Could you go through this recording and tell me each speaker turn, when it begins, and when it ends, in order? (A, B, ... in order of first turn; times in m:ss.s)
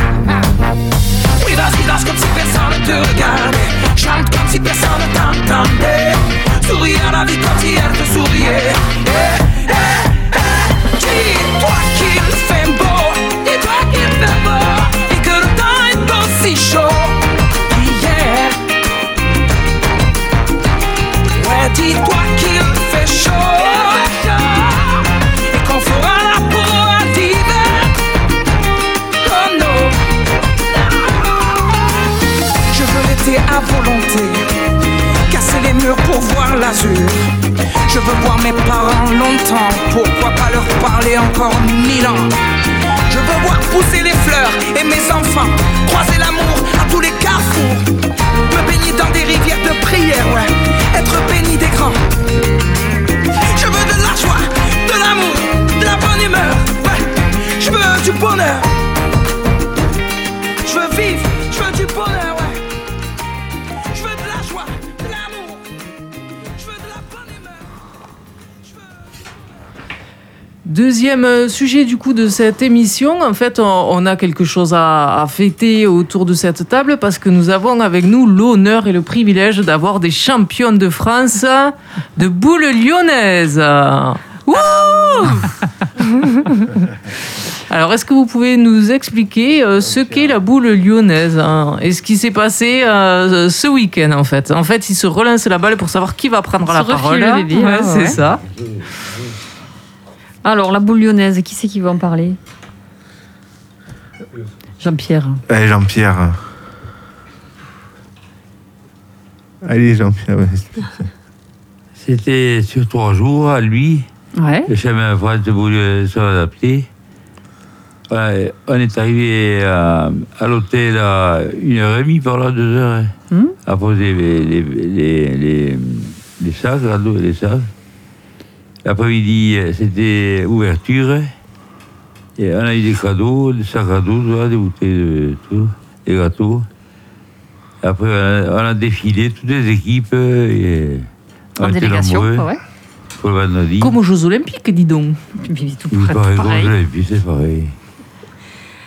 0:01.4-0:18.6 A
0:21.3-0:28.0 A
0:29.2-0:30.0 A
0:30.7-0:32.0 A
0:32.7-0:34.5 A
0:35.3-0:37.3 A
0:37.8-0:42.4 A
0:43.1-0:47.9 A
0:48.5-0:52.0 A
0:53.4-0:58.7 A
1:00.6-1:02.6 A
1:03.9-1:05.6 A
1:06.5-1:07.6 A
1:10.6-1:26.9 B
1:27.6-1:38.4 B
1:29.8-1:30.4 C
1:36.6-1:38.2 D
1:38.1-1:38.9 C
1:40.4-1:42.4 D
1:44.8-1:45.4 D
1:45.5-1:46.4 E
1:49.6-1:51.0 E
1:52.0-1:54.1 C
1:54.4-1:54.7 D
1:54.7-1:56.9 C
1:58.1-2:03.1 C
2:03.3-2:03.6 D
2:03.6-2:07.7 C
2:08.8-2:11.3 C
2:12.4-2:16.7 C
2:17.8-2:22.5 C
2:21.6-2:22.6 D
2:23.2-2:24.0 C
2:23.8-2:25.2 B
2:25.4-2:26.7 D
2:25.9-2:27.7 C